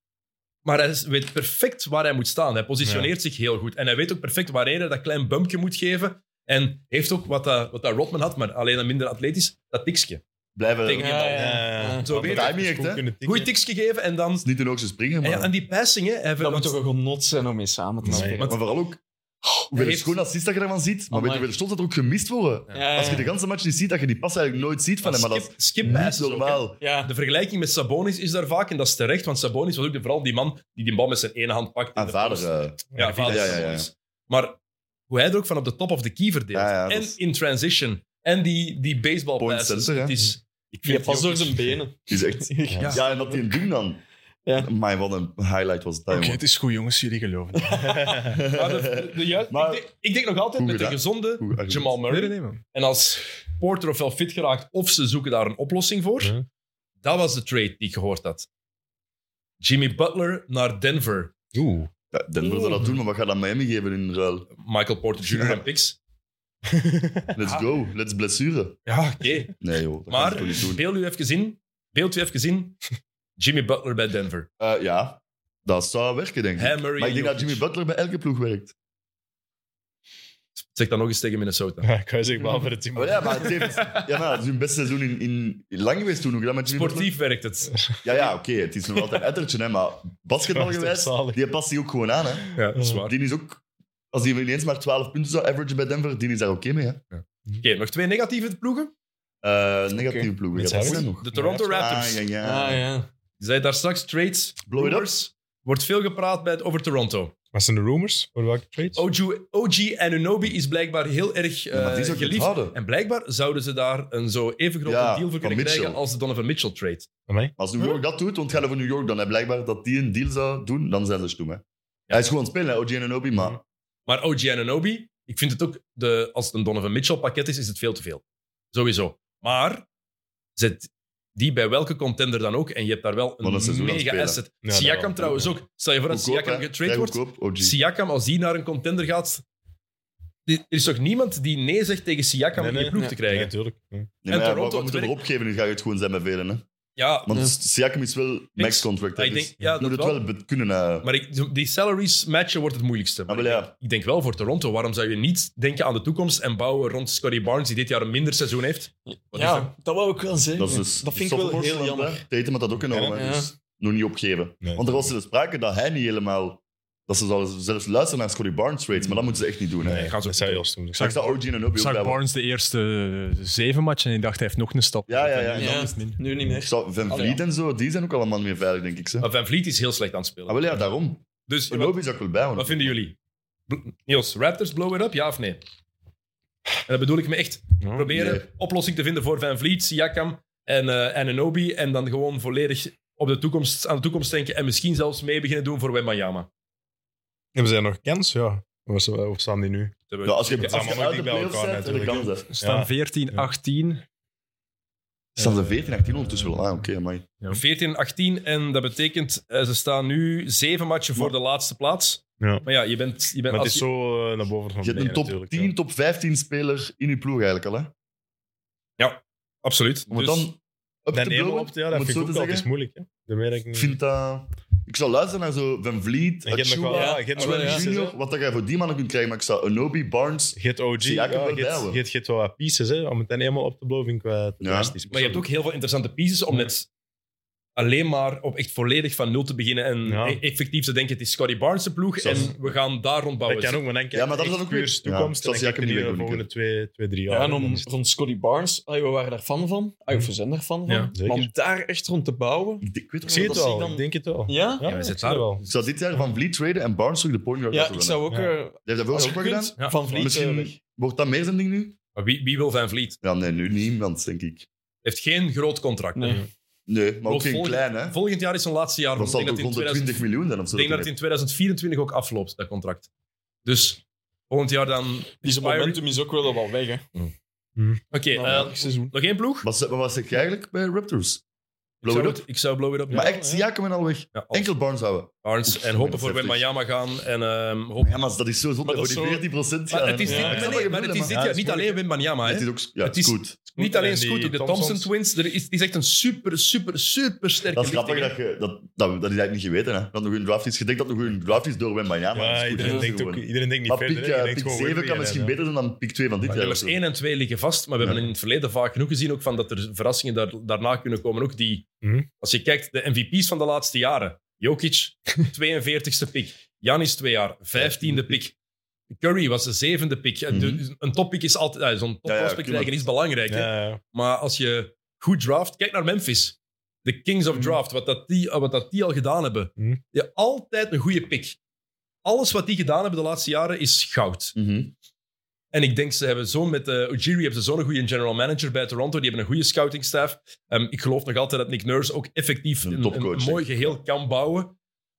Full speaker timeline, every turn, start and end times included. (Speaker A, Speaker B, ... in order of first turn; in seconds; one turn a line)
Speaker A: 0.6-10.2
Speaker B: 2.8-3.1
Speaker C: 10.6-11.4
Speaker A: 10.8-11.3
Speaker D: 10.9-12.1
Speaker B: 11.3-13.5
Speaker A: 12.0-12.6
Speaker C: 12.2-13.1
Speaker A: 13.2-14.4
Speaker C: 14.4-15.5
Speaker A: 15.2-16.8
Speaker D: 16.4-18.4
Speaker B: 18.0-18.4
Speaker A: 18.0-18.7
Speaker C: 18.4-19.0
Speaker C: 19.7-26.8
Speaker A: 19.7-20.1
Speaker D: 21.1-21.5
Speaker D: 22.7-23.3
Speaker A: 25.0-34.6
Speaker D: 26.8-27.1
Speaker C: 31.9-33.9
Speaker B: 32.9-33.4
Speaker A: 35.1-41.7
Speaker C: 36.5-37.2
Speaker C: 39.4-40.2
Speaker D: 40.8-43.3
Speaker C: 42.1-44.0
Speaker B: 42.7-43.0
Speaker C: 44.6-46.4
Speaker E: 46.1-48.2
Speaker D: 47.5-48.1
Speaker B: 48.0-48.3
Speaker C: 48.2-49.9
Speaker A: 48.5-56.3
Speaker C: 50.6-52.0
Speaker E: 52.0-52.6
Speaker B: 56.2-56.5
Speaker A: 57.0-58.5
Speaker A: 59.6-61.3
Speaker B: 61.5-61.9
Speaker C: 62.1-64.5
Speaker A: 64.6-66.0
Speaker C: 65.3-65.6
Speaker B: 66.7-67.4
Speaker C: 67.3-68.8
Speaker A: 68.8-69.6
Speaker C: 69.6-70.8
Speaker A: 70.1-72.8
Speaker A: 73.4-74.5
Speaker C: 74.6-78.7
Speaker A: 76.5-77.6
Speaker A: 80.6-81.9
Speaker B: 81.8-83.7
Speaker C: 82.9-87.1
Speaker A: 83.5-84.1
Speaker A: 86.7-87.7
Speaker C: 88.0-93.6
Speaker B: 90.5-91.4
Speaker A: 92.5-93.1
Speaker C: 94.1-97.0
Speaker A: 97.1-98.9
Speaker C: 99.4-102.8
Speaker D: 99.9-100.3
Speaker B: 100.5-101.1
Speaker A: 100.8-102.2
Speaker D: 102.4-103.1
Speaker A: 103.4-107.3
Speaker C: 104.6-105.1
Speaker B: 107.5-109.0
Speaker A: 108.9-117.1
Speaker C: 111.7-112.8
Speaker C: 114.8-116.0
Speaker B: 117.3-117.5
Speaker C: 117.6-123.6
Speaker A: 124.1-128.2
Speaker A: 128.7-129.8
Speaker A: 130.6-139.4
Speaker C: 133.4-134.4
Speaker B: 134.6-135.5
Speaker C: 136.1-137.7
Speaker A: 140.5-143.5
Speaker B: 142.6-144.1
Speaker C: 144.2-146.6
Speaker A: 144.3-145.2
Speaker A: 147.0-147.3
Speaker C: 147.3-151.1
Speaker D: 147.3-147.5
Speaker A: 148.6-150.2
Speaker A: 151.0-159.7
Speaker C: 153.3-153.7
Speaker D: 159.1-162.2
Speaker C: 160.6-170.1
Speaker B: 162.9-163.3
Speaker D: 163.1-163.5
Speaker B: 164.6-165.1
Speaker B: 169.8-171.2
Speaker A: 169.9-170.7
Speaker E: 170.9-176.2
Speaker C: 171.0-172.2
Speaker C: 175.1-179.3
Speaker D: 175.5-177.4
Speaker A: 179.2-180.7
Speaker C: 180.5-182.9
Speaker A: 181.5-182.0
Speaker A: 182.5-183.1
Speaker A: 183.7-185.6
Speaker A: 186.9-196.5
Speaker B: 187.8-188.1
Speaker C: 188.1-188.4
Speaker B: 197.5-199.9
Speaker A: 200.1-201.0
Speaker C: 200.2-202.5
Speaker B: 200.6-203.5
Speaker E: 202.5-204.0
Speaker C: 205.4-207.3
Speaker E: 205.4-205.8
Speaker A: 207.5-213.8
Speaker B: 212.4-212.7
Speaker B: 213.5-215.7
Speaker C: 214.8-217.9
Speaker A: 219.0-220.5
Speaker C: 220.1-222.7
Speaker B: 221.1-224.0
Speaker C: 223.7-232.0
Speaker B: 226.4-228.2
Speaker D: 226.9-227.8
Speaker B: 230.6-235.4
Speaker C: 234.6-235.0
Speaker A: 235.1-236.9
Speaker A: 237.8-243.8
Speaker B: 240.0-240.4
Speaker C: 242.2-242.7
Speaker B: 243.4-247.9
Speaker C: 244.1-246.4
Speaker D: 247.3-254.9
Speaker B: 250.9-251.5
Speaker C: 252.8-253.8
Speaker B: 253.3-255.6
Speaker A: 254.8-255.6
Speaker C: 255.6-258.2
Speaker D: 257.7-260.7
Speaker C: 258.8-261.9
Speaker A: 262.1-263.2
Speaker C: 263.2-264.6
Speaker A: 265.0-266.4
Speaker D: 266.1-266.4
Speaker C: 266.9-268.2
Speaker A: 267.3-273.1
Speaker C: 269.1-271.1
Speaker A: 273.6-276.0
Speaker D: 275.4-277.0
Speaker A: 278.1-279.7
Speaker D: 278.3-279.1
Speaker C: 279.6-281.4
Speaker A: 282.0-283.4
Speaker C: 282.0-282.4
Speaker B: 283.1-283.7
Speaker C: 283.1-286.6
Speaker A: 284.3-284.7
Speaker A: 285.4-288.2
Speaker C: 288.0-291.3
Speaker D: 288.8-289.5
Speaker A: 289.9-298.3
Speaker D: 290.2-290.7
Speaker B: 290.5-292.0
Speaker C: 292.4-293.6
Speaker B: 293.7-295.1
Speaker C: 297.7-307.0
Speaker B: 302.3-305.6
Speaker D: 302.8-303.1
Speaker A: 306.4-311.9
Speaker A: 312.4-318.5
Speaker C: 317.8-318.4
Speaker A: 319.1-331.6
Speaker C: 320.5-320.8
Speaker C: 322.2-323.0
Speaker B: 323.5-324.0
Speaker A: 332.2-334.6
Speaker C: 334.6-334.9
Speaker A: 335.7-344.7
Speaker C: 342.8-343.9